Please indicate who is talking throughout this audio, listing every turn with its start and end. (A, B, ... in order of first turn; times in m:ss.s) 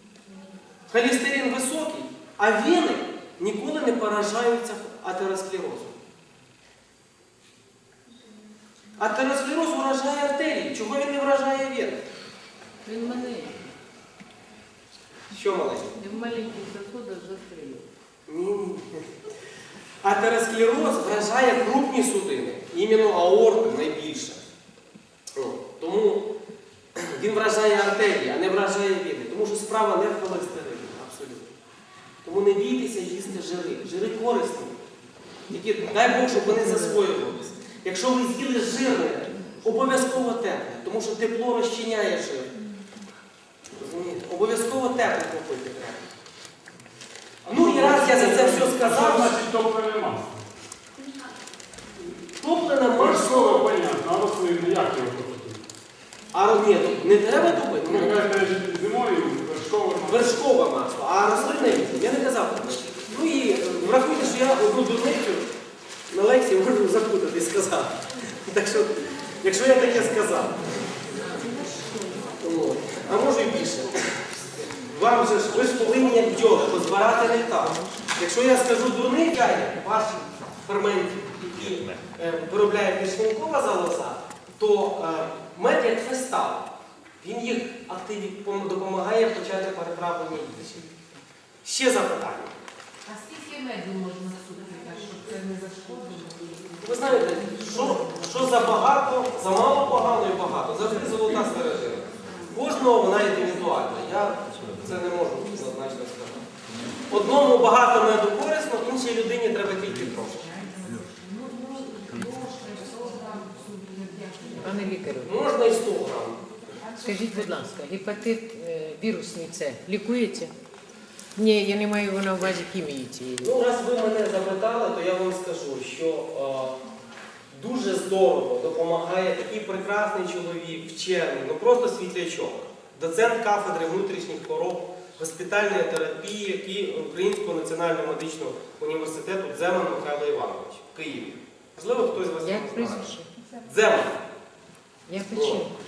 0:00.9-0:06.0 A
0:09.0-0:12.0 A
0:12.8-0:13.6 B
0:15.3-0:16.0 A
0:16.0-0:17.8 B
0:18.3-0:19.1 A
0:20.0-0:24.4 A
0:25.4-0:26.2 A
0:27.0-0:31.5 A
0:32.2-0:34.8 A
0:35.5-0:42.5 A
0:43.8-0:46.1 A
0:47.4-0:49.4 A
0:47.5-0:50.4 C
0:52.4-0:53.6 A
0:53.0-0:55.6 C
0:56.3-0:58.2 A
0:57.5-1:00.4 C
1:00.0-1:05.4 A
1:06.1-1:10.6 A
1:12.4-1:13.9 A
1:14.8-1:26.7 A
1:27.2-1:30.9 A
1:31.6-1:32.5 A
1:33.1-1:36.7 D
1:36.8-1:46.4 A
1:47.1-1:50.4 A
1:50.4-1:54.6 D
1:54.6-1:55.3 E
1:55.2-1:56.4 A
1:56.9-1:57.1 D
1:57.0-2:00.5 E
2:01.4-2:03.5 E
2:03.4-2:06.8 A
2:07.5-2:24.2 A
2:22.4-2:23.3 E
2:25.1-2:25.7 E
2:25.3-2:25.6 A